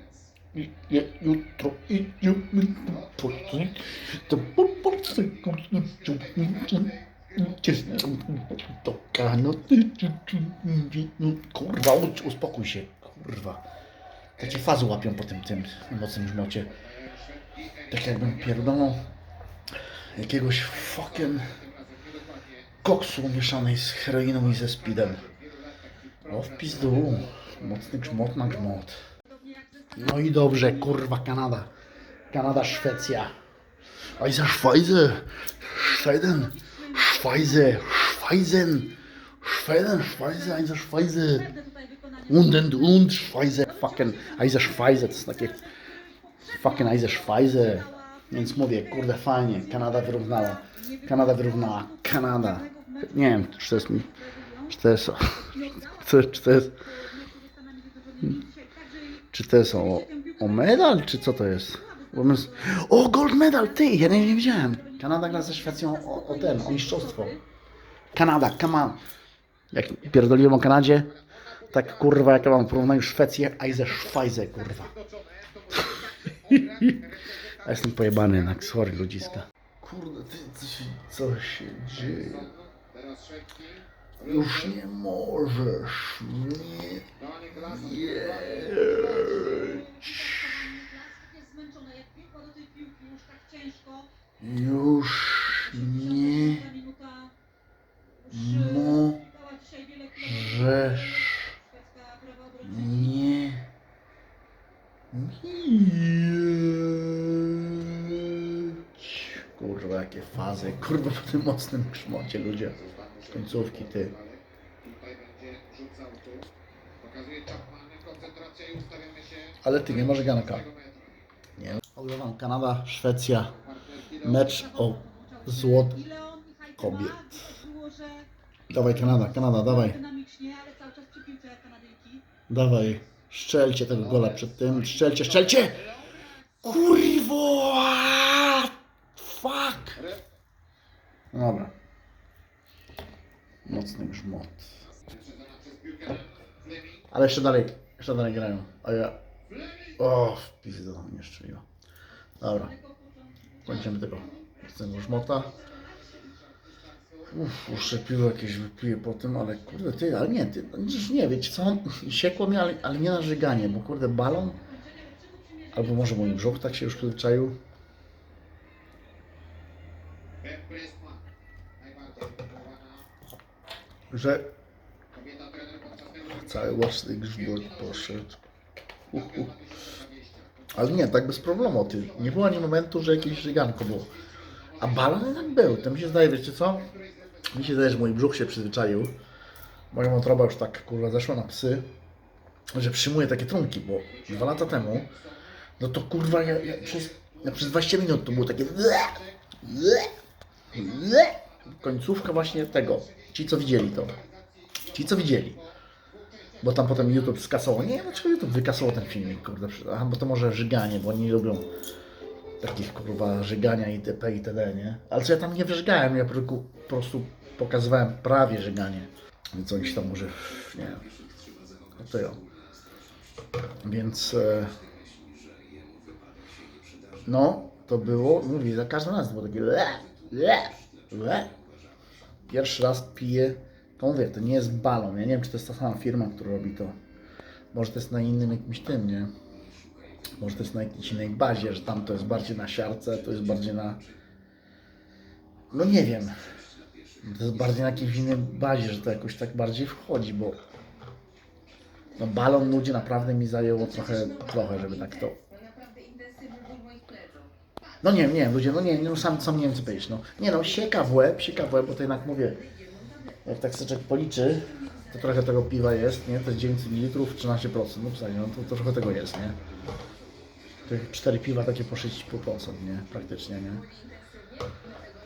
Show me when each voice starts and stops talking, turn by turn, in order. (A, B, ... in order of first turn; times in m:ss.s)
0:00.5-0:13.6 A
0:14.4-0:16.7 A
0:17.9-0:19.0 A
0:20.1-0:21.5 A
0:22.8-0:25.3 A
0:26.3-0:29.0 A
0:29.3-0:31.0 B
0:30.0-0:31.7 A
0:32.3-0:33.3 A
0:34.2-0:41.5 A
0:35.9-0:38.0 B
0:41.5-0:42.4 B
0:42.3-0:45.6 A
0:43.7-0:49.1 B
0:46.4-0:54.1 A
0:49.7-0:54.8 B
0:54.7-0:56.8 A
0:55.3-0:59.3 B
0:59.3-1:07.4 A
0:59.8-1:07.4 B
1:08.1-1:09.0 A
1:09.7-1:11.1 A
1:11.7-1:14.9 A
1:15.7-1:17.0 A
1:17.6-1:22.6 A
1:24.2-1:30.2 A
1:28.5-1:34.1 B
1:34.4-1:36.6 A
1:35.6-1:37.3 B
1:38.2-1:43.3 B
1:38.3-1:39.2 A
1:40.2-1:41.5 A
1:42.6-1:43.6 A
1:45.1-1:54.2 A
1:59.6-2:00.7 A
2:01.6-2:03.6 A
2:04.2-2:06.0 A
2:04.2-2:08.3 B
2:06.8-2:07.2 A
2:08.7-2:10.0 A
2:09.2-2:12.3 B
2:12.5-2:15.9 A
2:16.6-2:20.1 A
2:21.3-2:21.7 A
2:23.7-2:24.8 A
2:27.1-2:29.2 A
2:30.0-2:31.6 A
2:32.4-2:32.7 A
2:32.4-2:36.4 B
2:33.6-2:35.5 A
2:37.3-2:44.6 A
2:43.1-2:47.2 B
2:45.7-2:47.6 A
2:54.1-2:54.5 A
2:56.2-2:58.4 A
2:59.1-2:59.5 A
3:00.7-3:04.2 A
3:04.8-3:06.9 A
3:07.5-3:09.2 A
3:09.9-3:11.9 A
3:12.7-3:15.1 A
3:15.8-3:20.1 A
3:20.7-3:24.2 A
3:24.9-3:25.6 A
3:26.6-3:31.7 A
3:32.6-3:41.1 A
3:42.0-3:42.5 A
3:43.8-3:44.8 A
3:47.2-3:51.6 A
3:52.5-3:57.0 A
3:57.7-3:59.3 A
4:00.4-4:04.0 A
4:05.7-4:06.4 A
4:07.2-4:10.6 A
4:12.2-4:15.4 A
4:18.0-4:22.6 A
4:23.4-4:29.6 A
4:30.9-4:33.9 A